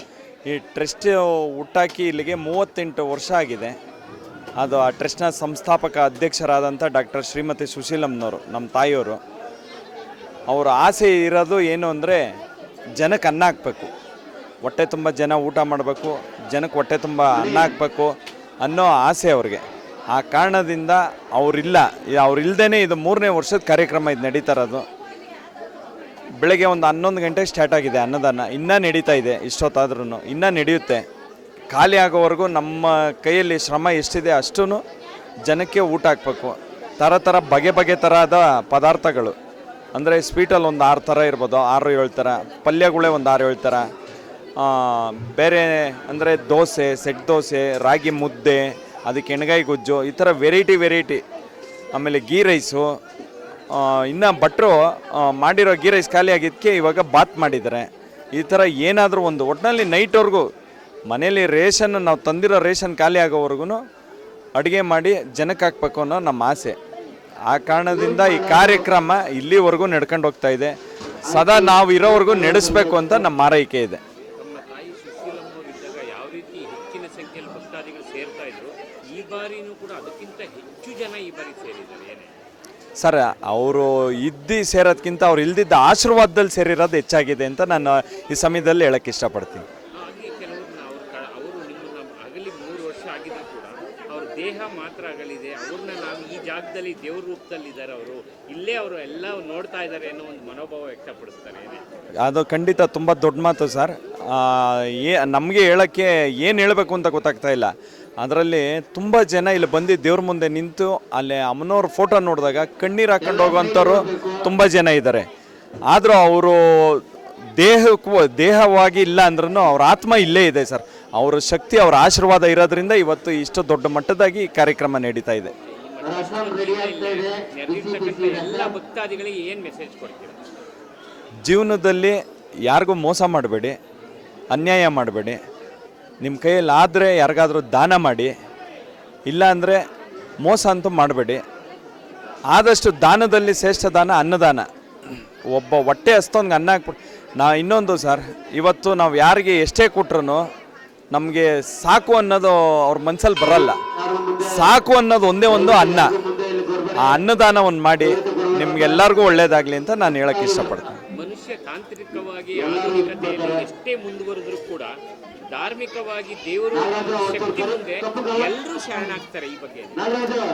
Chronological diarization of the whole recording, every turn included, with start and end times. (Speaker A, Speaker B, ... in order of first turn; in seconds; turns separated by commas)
Speaker A: 0.5-3.8, Speaker A: 4.6-9.2, Speaker A: 10.5-12.3, Speaker A: 13.0-13.9, Speaker A: 14.6-24.9, Speaker A: 26.4-31.0, Speaker A: 31.7-34.8, Speaker A: 35.5-39.4, Speaker A: 39.9-43.9, Speaker A: 44.6-51.2, Speaker A: 51.9-53.0, Speaker A: 53.7-60.5, Speaker A: 61.1-63.8, Speaker A: 64.5-66.8, Speaker A: 67.5-74.0, Speaker B: 74.4-82.3, Speaker A: 83.0-89.6, Speaker B: 90.0-101.8, Speaker A: 102.2-115.3, Speaker A: 115.9-117.0, Speaker A: 117.6-125.5, Speaker B: 125.6-130.4, Speaker A: 131.4-133.8, Speaker A: 134.5-135.4, Speaker A: 136.2-138.3, Speaker A: 139.3-139.8, Speaker A: 140.4-141.4, Speaker A: 142.5-150.4, Speaker A: 151.1-153.8, Speaker A: 154.3-156.2, Speaker A: 156.9-161.0, Speaker B: 161.1-164.9, Speaker B: 165.5-170.1